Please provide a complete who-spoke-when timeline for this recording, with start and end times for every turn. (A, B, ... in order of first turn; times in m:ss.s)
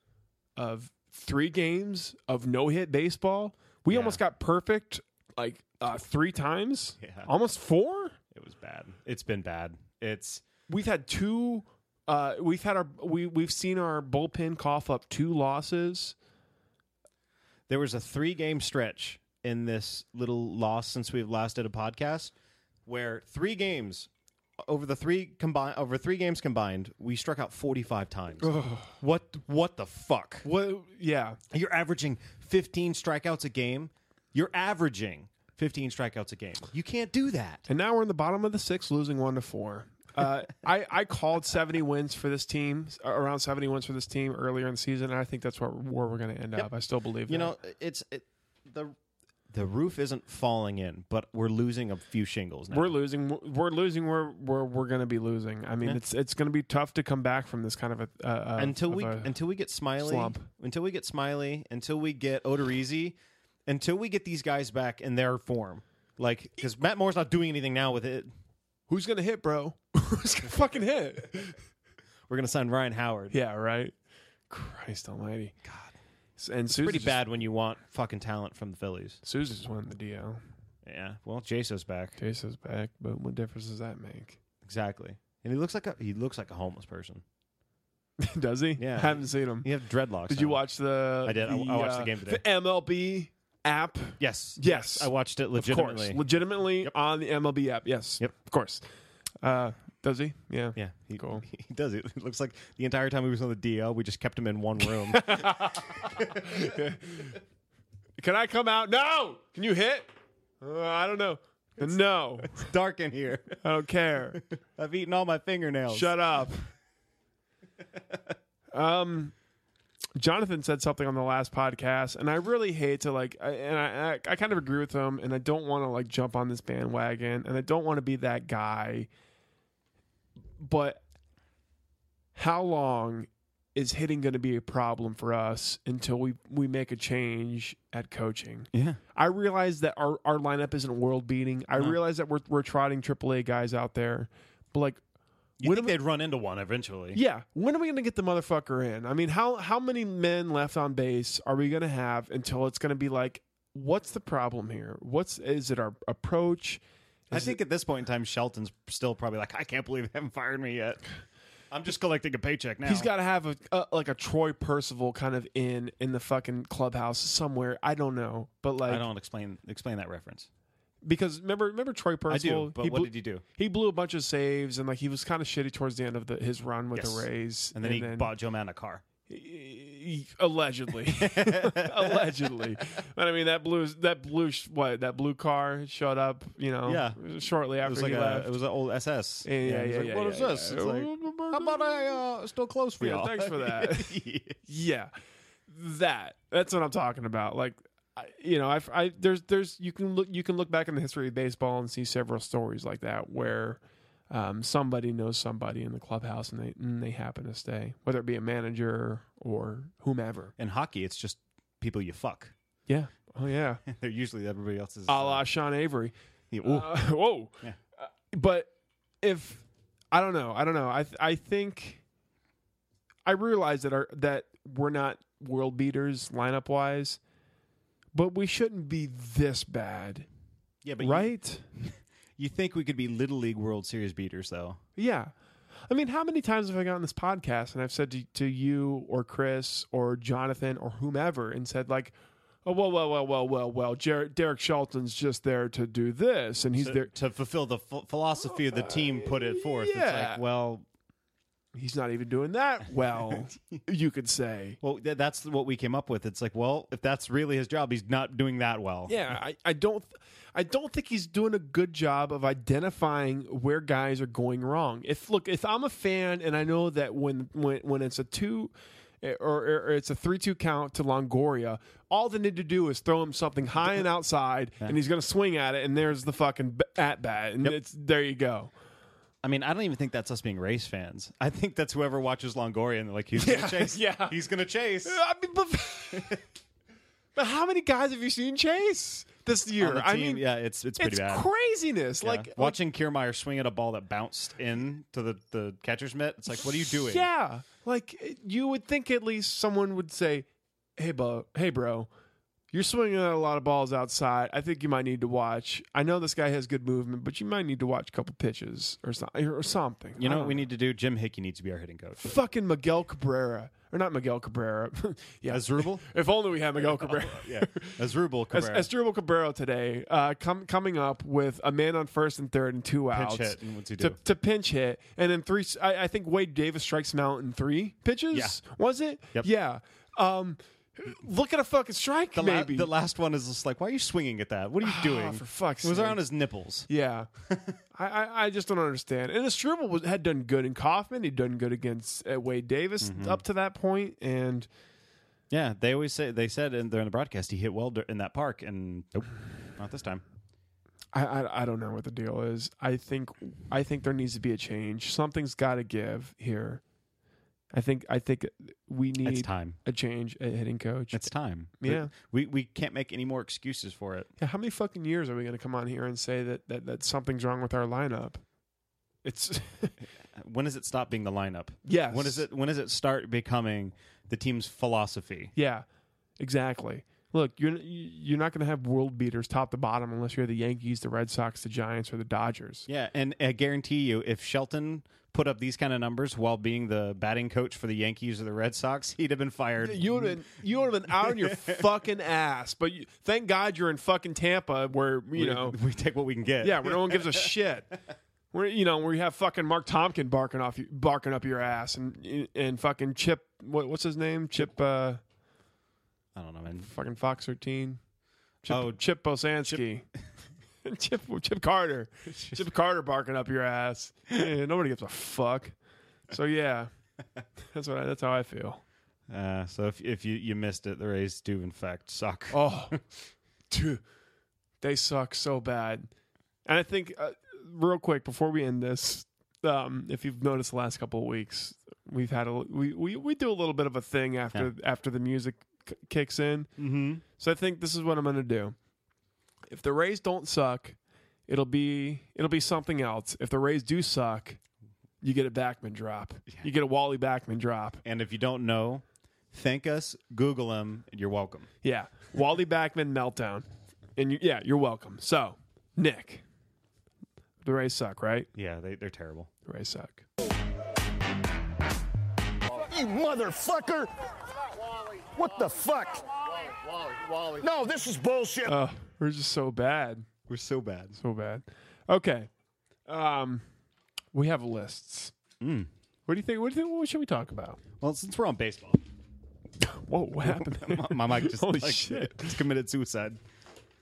0:00.6-0:08.2 A
0:03.9-0:04.2 B
0:07.0-0:07.3 B
0:08.3-0:10.4 B
0:10.7-0:16.2 A
0:17.7-0:22.3 B
0:22.9-0:30.5 B
0:28.4-0:29.0 A
0:30.4-0:31.4 A
0:31.5-0:37.6 B
0:37.7-0:47.6 A
0:47.3-0:49.0 B
0:49.5-0:53.0 B
0:52.7-0:59.3 A
0:58.6-1:03.2 B
1:00.0-1:00.5 A
1:03.7-1:08.3 B
1:08.9-1:11.6 A
1:12.3-1:13.4 B
1:13.3-1:14.0 A
1:14.5-1:15.6 A
1:15.6-1:15.9 B
1:16.4-1:17.2 A
1:16.7-1:19.2 B
1:19.2-1:20.4 A
1:20.8-1:22.2 B
1:22.2-1:24.4 A
1:24.6-1:27.2 B
1:28.2-1:29.7 A
1:28.8-1:30.6 B
1:30.3-1:38.8 A
1:31.2-1:32.4 B
1:34.2-1:36.2 B
1:39.4-1:41.4 A
1:40.8-1:46.5 B
1:45.1-1:47.4 A
1:48.2-1:50.1 A
1:50.6-1:52.6 A
1:51.9-1:53.6 B
1:53.6-1:54.4 A
1:54.4-1:56.2 B
1:55.9-1:56.7 A
1:58.7-1:59.3 A
2:00.2-2:09.1 A
2:10.6-2:11.0 A
2:12.4-2:25.0 A
2:18.7-2:19.0 B
2:25.6-2:27.2 B
2:25.6-2:25.9 A
2:27.1-2:37.6 A
2:37.3-2:41.0 B
2:41.7-2:43.1 B
2:42.8-2:49.0 A
2:48.8-2:50.5 B
2:51.0-2:58.3 A
2:52.3-2:53.4 B
2:56.9-2:59.0 B
2:59.3-3:08.5 A
3:01.1-3:02.3 B
3:06.8-3:07.2 B
3:07.8-3:14.6 B
3:09.4-3:12.2 A
3:13.0-3:15.1 A
3:15.7-3:30.6 A
3:30.6-3:32.5 B
3:32.9-3:33.8 A
3:33.9-3:35.4 B
3:35.1-3:42.0 A
3:36.5-3:37.0 B
3:43.3-3:47.2 A
3:48.1-3:50.3 A
3:50.8-3:54.8 B
3:51.0-3:51.6 A
3:55.0-3:55.3 A
3:55.9-4:07.1 A
4:06.8-4:10.8 B
4:08.5-4:10.4 A
4:11.8-4:14.8 A
4:13.2-4:13.8 B
4:14.8-4:19.2 B
4:19.1-4:38.7 A
4:39.4-4:45.2 B
4:43.4-4:44.4 A
4:45.0-4:46.4 A
4:46.1-4:46.4 B
4:47.4-4:50.4 A
4:49.8-4:51.5 B
4:51.0-4:52.8 A
4:52.2-4:57.3 B
4:56.9-5:02.1 A
5:02.7-5:10.6 A
5:10.2-5:12.2 B
5:12.2-5:18.0 A
5:15.5-5:16.0 B
5:16.7-5:18.9 B
5:18.5-5:32.9 A
5:23.1-5:24.2 B
5:28.3-5:28.6 B
5:32.4-5:36.9 B
5:34.8-5:36.2 A
5:36.9-5:37.3 A
5:37.5-5:37.8 B
5:37.9-5:44.7 A
5:43.0-5:43.4 B
5:45.5-5:50.2 B
5:51.1-5:56.8 A
5:57.7-6:02.1 A
5:59.2-5:59.8 B
6:01.1-6:04.3 B
6:04.4-6:08.4 A
6:09.2-6:10.0 A
6:10.3-6:15.5 B
6:11.9-6:12.4 A
6:15.6-6:15.8 A
6:16.4-6:22.9 A
6:22.9-6:30.4 B
6:29.8-6:35.8 A
6:31.1-6:31.8 B
6:35.4-6:37.4 B
6:36.6-6:37.9 A
6:38.5-6:45.2 A
6:46.4-6:46.9 B
6:46.7-6:48.0 A
6:48.6-6:50.1 A
6:48.7-6:49.0 B
6:50.8-6:55.8 A
6:52.3-6:52.6 B
6:56.3-6:56.9 A
6:57.6-6:58.8 A
6:59.3-7:03.0 B
7:02.5-7:03.0 A
7:03.7-7:04.0 A
7:04.8-7:06.1 A
7:06.7-7:16.7 A
7:16.8-7:17.2 B
7:17.4-7:18.8 A
7:19.7-7:24.6 A
7:25.2-7:28.0 A
7:28.0-7:31.7 B
7:31.8-7:36.4 A
7:37.6-7:38.5 A
7:38.5-7:39.5 B
7:39.7-7:40.2 A
7:42.7-7:44.1 C
7:45.3-7:46.4 C
7:47.3-7:48.7 C
7:48.6-7:50.3 A
7:50.5-7:51.2 B
7:51.2-7:52.5 A
7:53.1-7:53.6 A
7:54.3-7:55.3 A
7:55.6-7:55.9 B
7:56.3-7:57.8 A
7:58.0-7:59.0 B
7:59.8-8:02.6 A
8:00.4-8:03.4 B